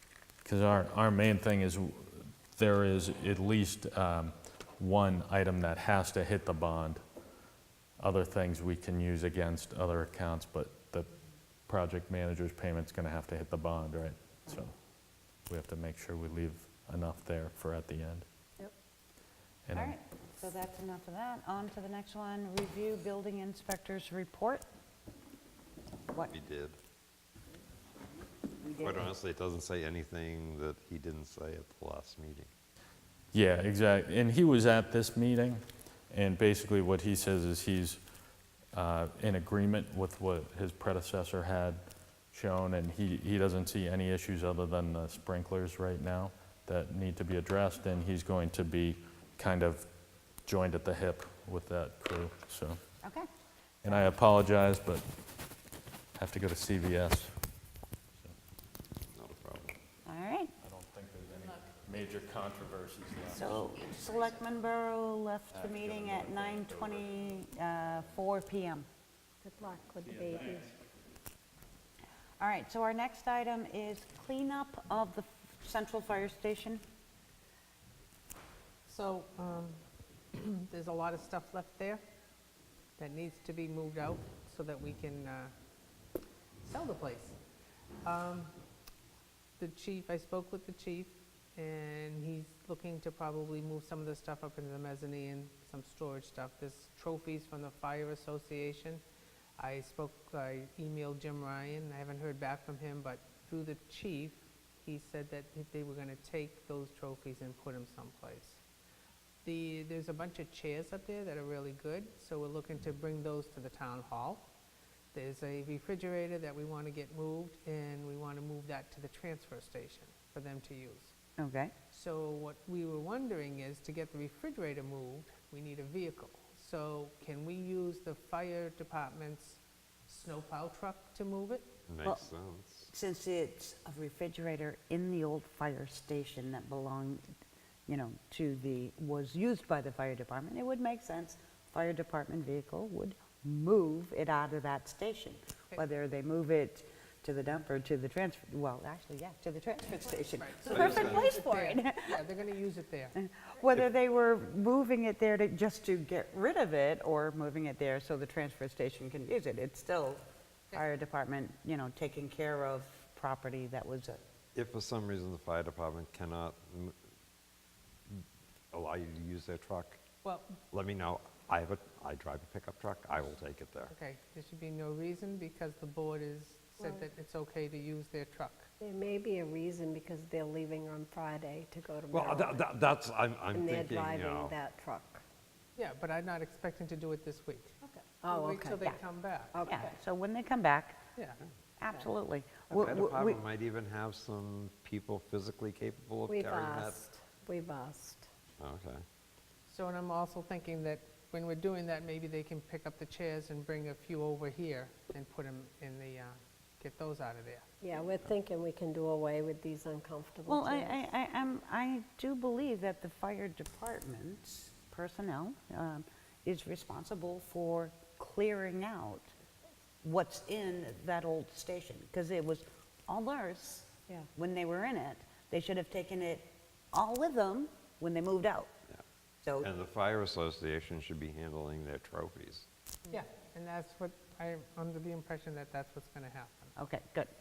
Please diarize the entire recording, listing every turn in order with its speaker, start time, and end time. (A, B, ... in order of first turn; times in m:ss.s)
0:00.4-0:07.0 A
0:08.0-0:11.1 A
0:11.7-0:14.7 A
0:15.4-0:18.2 A
0:19.6-0:19.9 A
0:19.7-0:24.6 B
0:26.3-0:26.8 C
0:28.6-0:29.0 B
0:28.8-0:32.5 C
0:33.3-0:38.0 A
0:38.7-0:52.8 A
0:53.0-0:53.3 B
0:53.8-0:55.0 A
0:56.1-0:57.4 A
0:59.1-0:59.7 C
1:00.0-1:00.5 B
1:00.6-1:03.8 A
1:03.3-1:08.8 B
1:05.5-1:07.1 A
1:09.4-1:10.7 D
1:12.4-1:16.8 B
1:18.9-1:19.8 E
1:20.3-1:22.0 E
1:23.0-1:25.5 E
1:26.6-1:27.4 E
1:28.0-1:28.5 E
1:29.6-1:39.0 E
1:39.6-1:48.6 E
1:49.4-1:54.5 E
1:55.1-2:01.1 E
2:01.4-2:01.7 B
2:01.9-2:11.7 E
2:11.9-2:12.9 C
2:12.9-2:17.2 B
2:17.9-2:32.2 B
2:30.0-2:33.2 E
2:30.6-2:31.3 C
2:33.1-2:40.2 B
2:40.7-2:44.2 B
2:44.5-2:46.9 C
2:48.1-2:50.0 C
2:50.2-2:50.6 E
2:50.7-2:53.9 C
2:53.9-2:58.7 E
2:56.8-2:57.0 D
2:58.8-3:02.7 D
3:02.1-3:04.5 C
3:03.5-3:05.2 D
3:05.8-3:07.8 E
3:07.8-3:08.9 D
3:08.3-3:09.5 E
3:09.5-3:09.9 D
3:09.7-3:11.1 B
3:11.8-3:13.4 B
3:12.7-3:17.0 C
3:16.3-3:18.3 D
3:18.6-3:19.0 C
3:19.7-3:27.7 E
3:27.8-3:31.1 D
3:30.5-3:39.3 B
3:40.0-3:48.7 B
3:49.6-3:52.7 C
3:53.1-3:56.7 E
3:56.8-3:57.3 B